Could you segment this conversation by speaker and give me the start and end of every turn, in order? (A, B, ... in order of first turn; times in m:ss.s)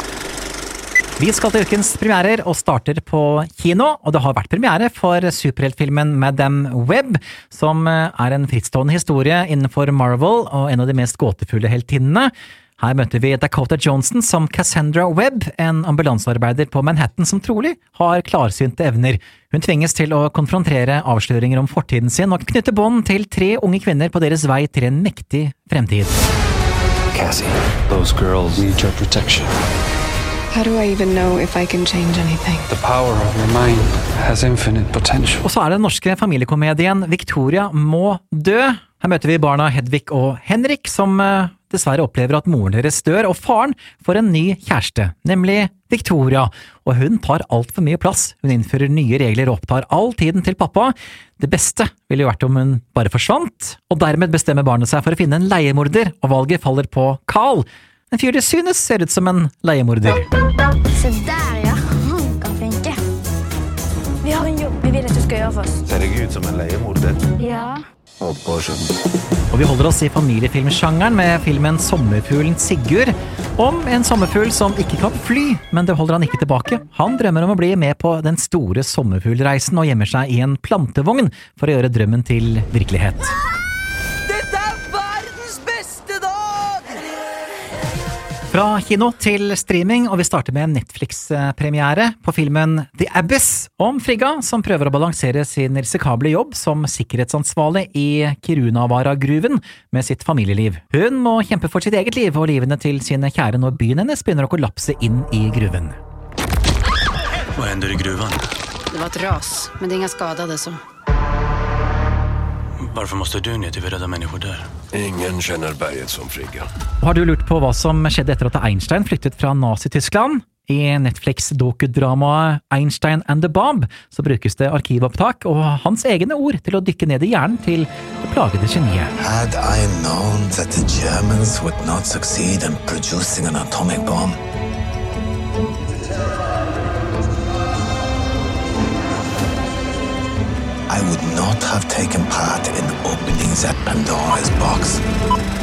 0:01.2-0:26.2 A
0:27.1-0:29.5 B
0:30.5-0:32.6 C
0:32.7-0:35.4 B
0:35.4-1:00.2 A
1:00.9-1:03.0 D
1:04.2-1:05.8 D
1:05.9-1:07.2 E
1:07.4-1:07.8 D
1:08.2-1:08.9 E
1:09.5-1:23.3 A
1:24.3-1:26.8 C
1:28.5-1:46.0 A
1:47.6-1:48.4 F
1:48.9-1:50.8 C
1:52.8-1:54.7 F
1:54.9-1:56.7 E
1:57.0-2:09.1 A
2:09.2-2:14.4 G
2:20.9-2:25.0 G